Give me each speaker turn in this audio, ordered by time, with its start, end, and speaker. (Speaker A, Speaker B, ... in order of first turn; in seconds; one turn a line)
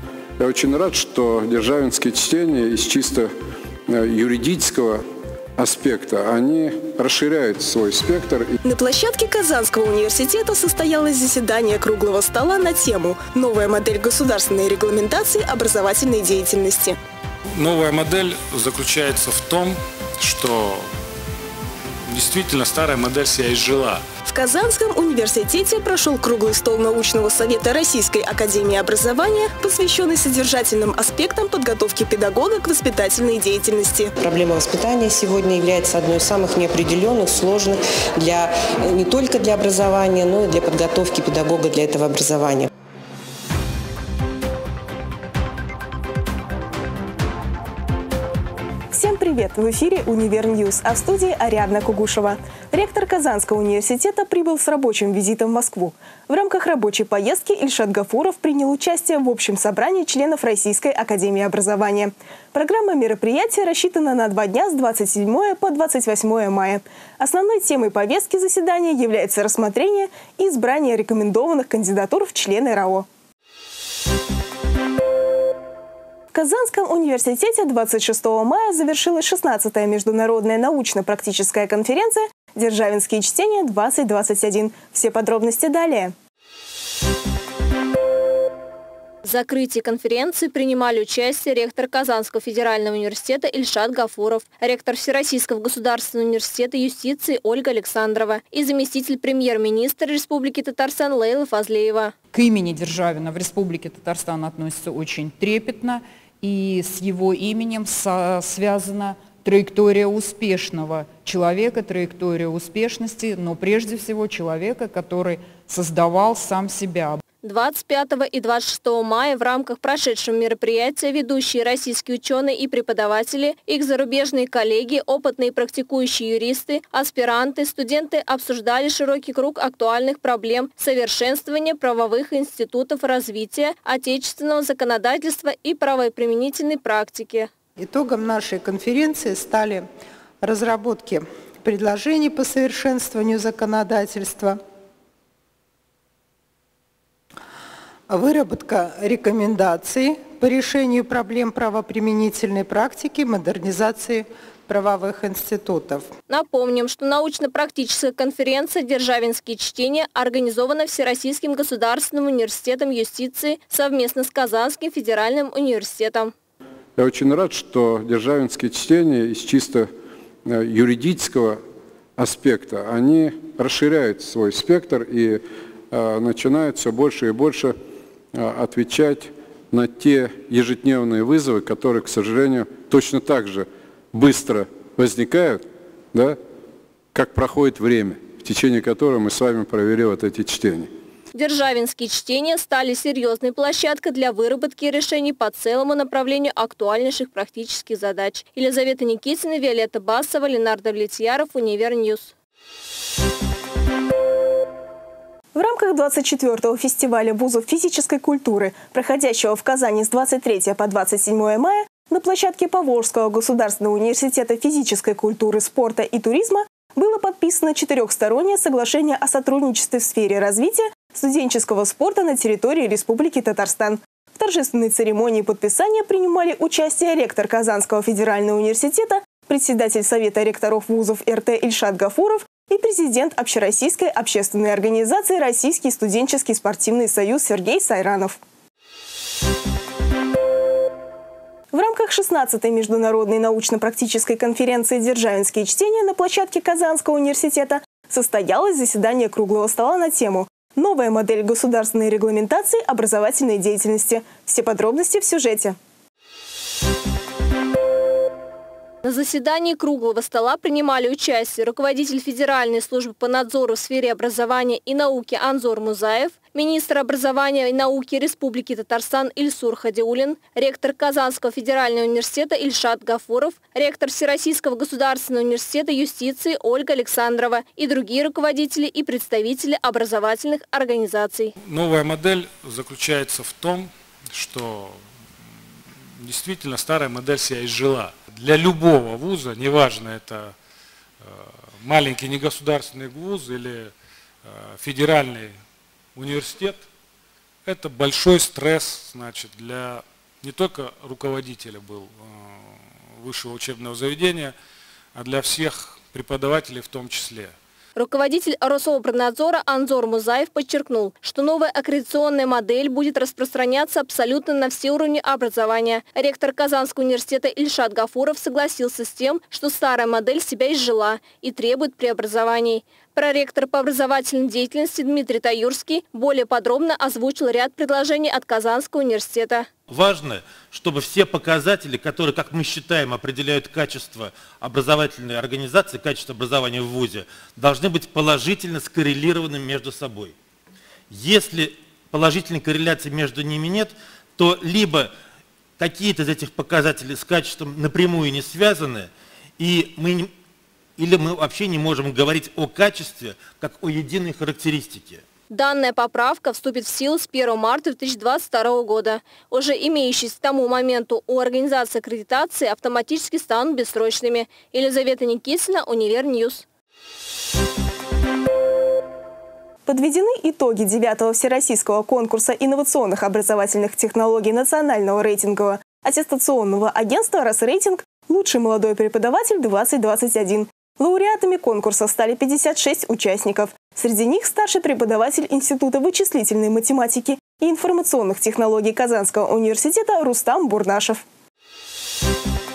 Speaker A: 0.4-3.3
Speaker A: 3.9-5.0
Speaker A: 5.6-8.5
Speaker B: 8.6-17.0
Speaker C: 17.6-20.9
Speaker C: 22.1-24.0
Speaker B: 24.3-34.1
Speaker D: 34.2-42.7
Speaker B: 48.9-73.1
Speaker B: 76.3-86.1
Speaker E: 89.2-102.1
Speaker F: 102.3-117.2
Speaker E: 117.4-137.5
Speaker G: 137.8-139.9
Speaker G: 140.4-144.6
Speaker G: 148.1-156.1
Speaker E: 156.3-166.3
Speaker A: 167.0-169.9
Speaker A: 170.5-171.6
Speaker A: 172.2-177.8
Speaker A: 178.3-185.6
Speaker A: 187.1-190.9
Speaker E: 191.3-202.3
Speaker B: 205.5-238.4
Speaker B: 241.7-255.8
Speaker E: 259.0-281.5
Speaker C: 281.6-285.0
Speaker C: 286.2-290.5
Speaker C: 291.3-293.9
Speaker C: 294.4-295.6
Speaker C: 296.1-296.8
Speaker C: 297.6-304.5
Speaker C: 305.1-307.6
Speaker E: 308.0-329.7
Speaker H: 329.9-340.3
Speaker H: 341.1-345.1
Speaker H: 345.8-350.3
Speaker H: 351.0-355.2
Speaker E: 355.5-366.6
Speaker B: 369.9-391.2